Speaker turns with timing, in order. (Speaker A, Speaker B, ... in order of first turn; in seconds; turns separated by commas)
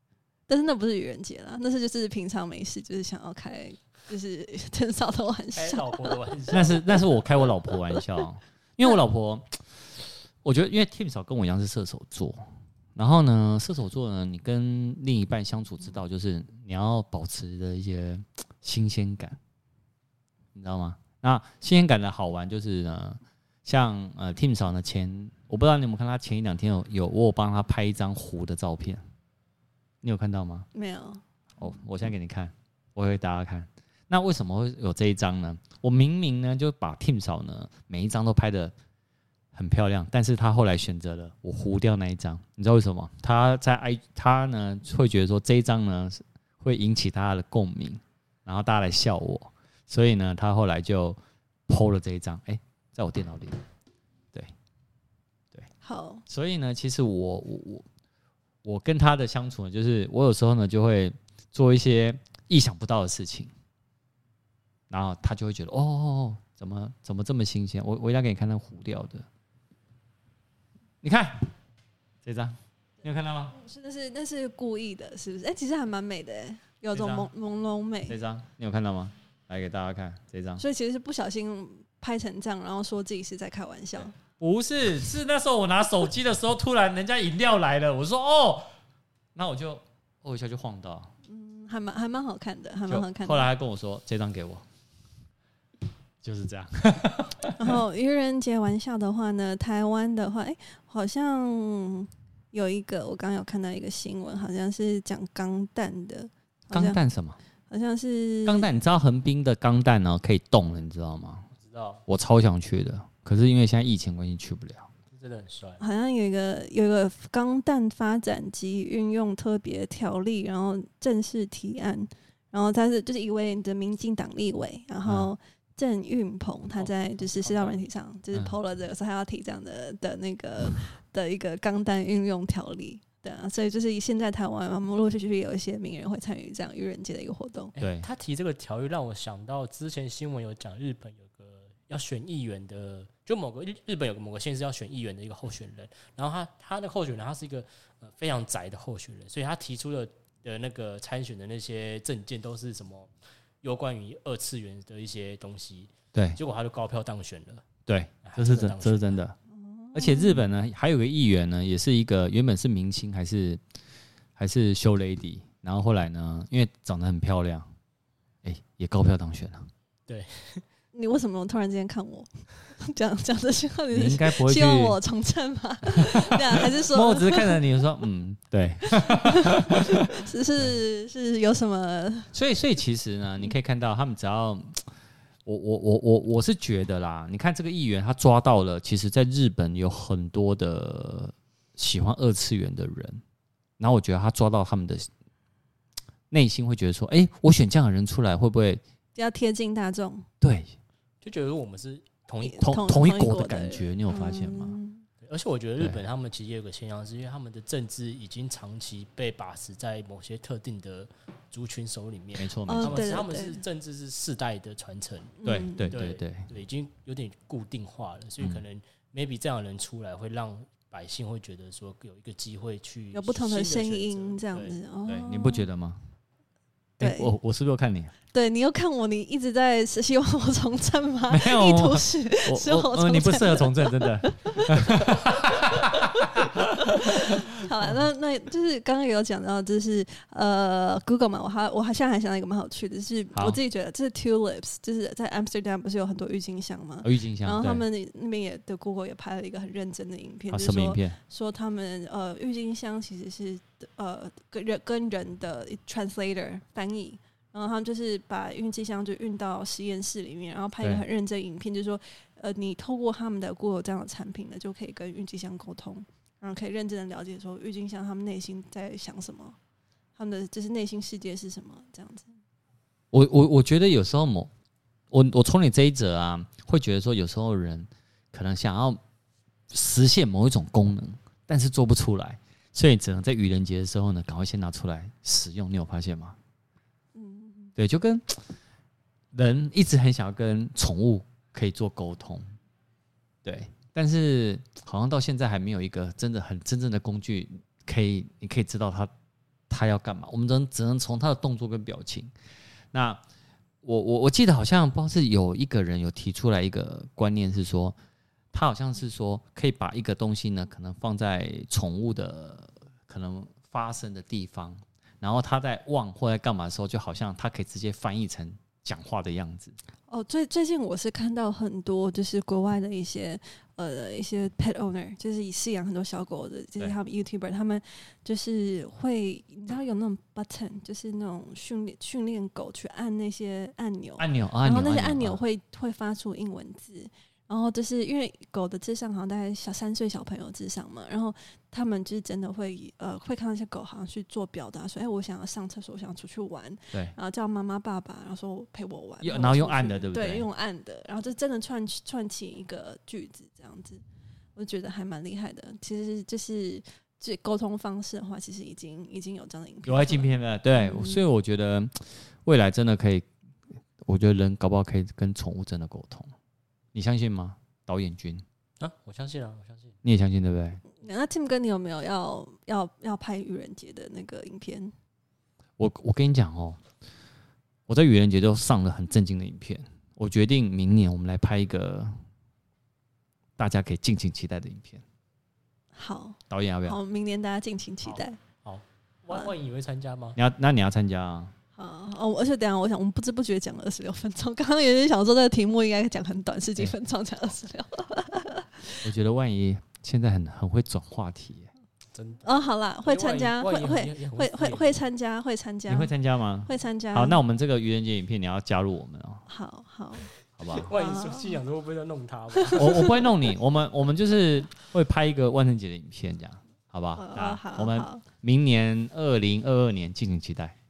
Speaker A: 0.5-6.6, Speaker B: 5.5-6.9, Speaker C: 6.5-12.4, Speaker C: 12.9-19.4, Speaker C: 20.5-29.0, Speaker C: 30.0-30.7, Speaker A: 30.7-31.2, Speaker C: 31.6-38.7, Speaker C: 39.5-53.6, Speaker A: 55.8-56.2, Speaker C: 56.3-57.9, Speaker C: 58.6-63.5, Speaker C: 64.9-69.3, Speaker C: 71.0-71.5, Speaker C: 72.2-73.5, Speaker A: 73.5-78.2, Speaker C: 76.9-77.3, Speaker C: 78.1-80.6, Speaker A: 80.6-84.1, Speaker C: 84.4-88.7, Speaker C: 89.3-91.1, Speaker A: 91.3-93.5, Speaker C: 92.9-94.6, Speaker C: 96.2-97.7, Speaker A: 97.6-107.0, Speaker C: 106.7-107.4, Speaker A: 107.7-108.7, Speaker C: 108.5-111.5, Speaker B: 111.6-112.0, Speaker C: 112.1-114.9, Speaker B: 115.1-115.8, Speaker A: 115.8-137.7, Speaker C: 125.0-125.3, Speaker B: 126.8-127.8, Speaker B: 137.7-153.1, Speaker C: 137.8-138.1, Speaker B: 153.6-157.7, Speaker C: 156.1-156.4, Speaker C: 157.9-159.4, Speaker B: 158.2-159.2, Speaker A: 159.5-160.5, Speaker C: 159.9-163.6, Speaker C: 164.4-167.7, Speaker C: 168.4-169.7, Speaker B: 170.1-170.6, Speaker A: 170.9-177.6, Speaker C: 173.9-175.0, Speaker C: 176.0-180.2, Speaker A: 178.8-182.3, Speaker C: 182.3-184.9, Speaker C: 185.4-193.2, Speaker C: 193.8-195.1, Speaker C: 196.3-198.8, Speaker A: 199.2-200.3, Speaker C: 200.4-200.8, Speaker B: 201.2-202.7, Speaker A: 202.4-205.0, Speaker C: 202.6-204.8, Speaker B: 205.2-224.8, Speaker C: 212.4-213.0, Speaker A: 212.7-213.6, Speaker A: 215.4-215.9, Speaker C: 215.4-216.5, Speaker A: 223.1-225.7, Speaker C: 225.1-226.0, Speaker A: 227.0-227.3, Speaker C: 227.0-228.1, Speaker A: 228.3-234.7, Speaker C: 231.3-236.6, Speaker A: 235.8-236.3, Speaker A: 236.9-269.6, Speaker C: 247.0-247.8, Speaker C: 250.5-251.2, Speaker C: 260.8-261.1, Speaker A: 270.1-272.4, Speaker C: 273.1-274.5, Speaker C: 275.1-279.0, Speaker C: 279.7-286.4, Speaker A: 287.1-287.7, Speaker C: 287.8-288.4, Speaker C: 289.3-292.4, Speaker C: 293.4-299.1, Speaker C: 299.7-302.3, Speaker C: 302.9-303.2, Speaker C: 303.8-307.9, Speaker C: 308.5-319.8, Speaker A: 320.1-354.0, Speaker C: 334.2-335.4, Speaker C: 349.2-350.5, Speaker A: 354.6-361.3, Speaker C: 359.9-363.3, Speaker C: 364.0-366.3, Speaker C: 366.9-368.4, Speaker B: 368.8-369.9, Speaker C: 370.0-370.8, Speaker A: 371.0-374.9, Speaker C: 375.8-376.8, Speaker C: 377.9-382.2, Speaker C: 383.6-385.0, Speaker A: 385.9-388.4, Speaker C: 386.5-387.0, Speaker B: 388.1-390.4, Speaker C: 390.4-391.5, Speaker A: 391.8-399.0, Speaker C: 399.0-401.7, Speaker B: 402.1-402.5, Speaker A: 402.4-406.1, Speaker B: 403.0-405.0, Speaker C: 405.9-409.4, Speaker A: 406.6-407.4, Speaker A: 409.5-410.3, Speaker C: 410.6-410.9, Speaker B: 410.6-413.2, Speaker A: 410.9-411.6, Speaker A: 412.6-413.2, Speaker C: 412.7-420.8, Speaker A: 417.1-418.2